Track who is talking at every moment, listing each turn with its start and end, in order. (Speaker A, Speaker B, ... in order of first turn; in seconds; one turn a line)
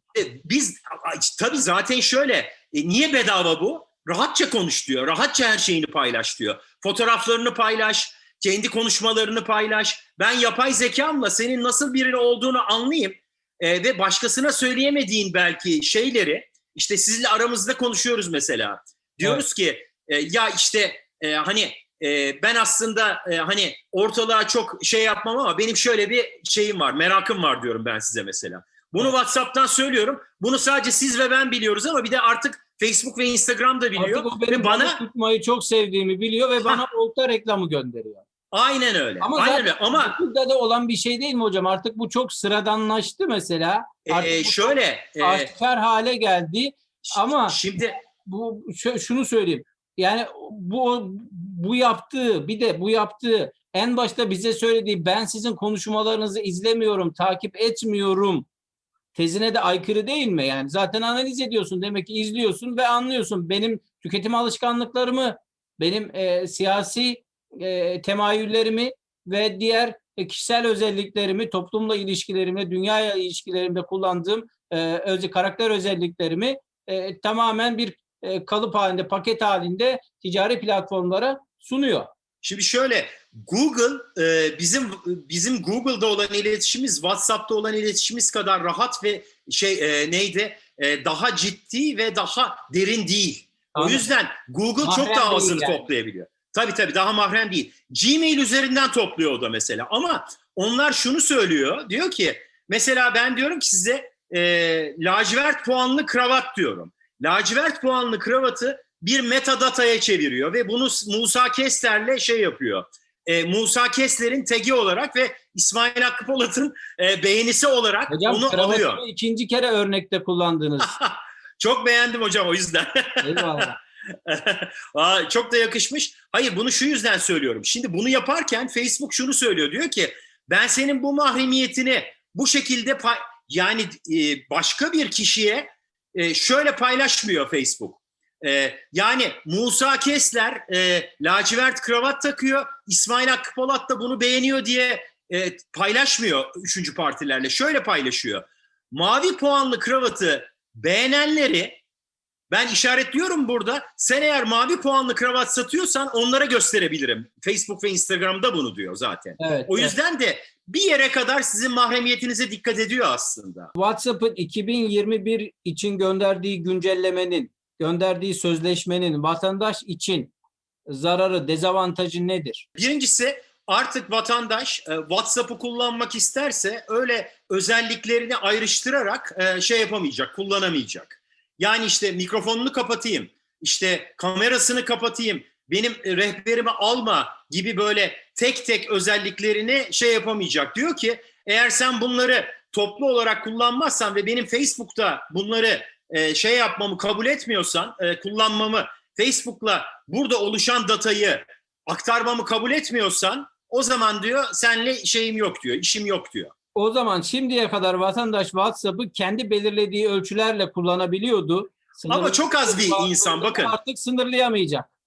Speaker A: 0.1-35.0
Speaker B: 34.0-38.2
Speaker A: 38.5-40.2
Speaker B: 39.2-47.6
Speaker A: 44.0-45.5
Speaker A: 47.1-48.0
Speaker B: 48.2-58.5
Speaker B: 59.1-82.1
Speaker A: 82.4-119.0
Speaker B: 93.7-94.1
Speaker B: 94.8-95.8
Speaker B: 118.1-120.9
Speaker A: 120.8-123.7
Speaker B: 123.2-123.8
Speaker A: 124.2-151.8
Speaker A: 152.5-163.7
Speaker B: 159.4-159.9
Speaker B: 163.7-170.3
Speaker B: 170.9-172.7
Speaker A: 172.8-206.5
Speaker B: 206.7-214.9
Speaker A: 212.1-213.7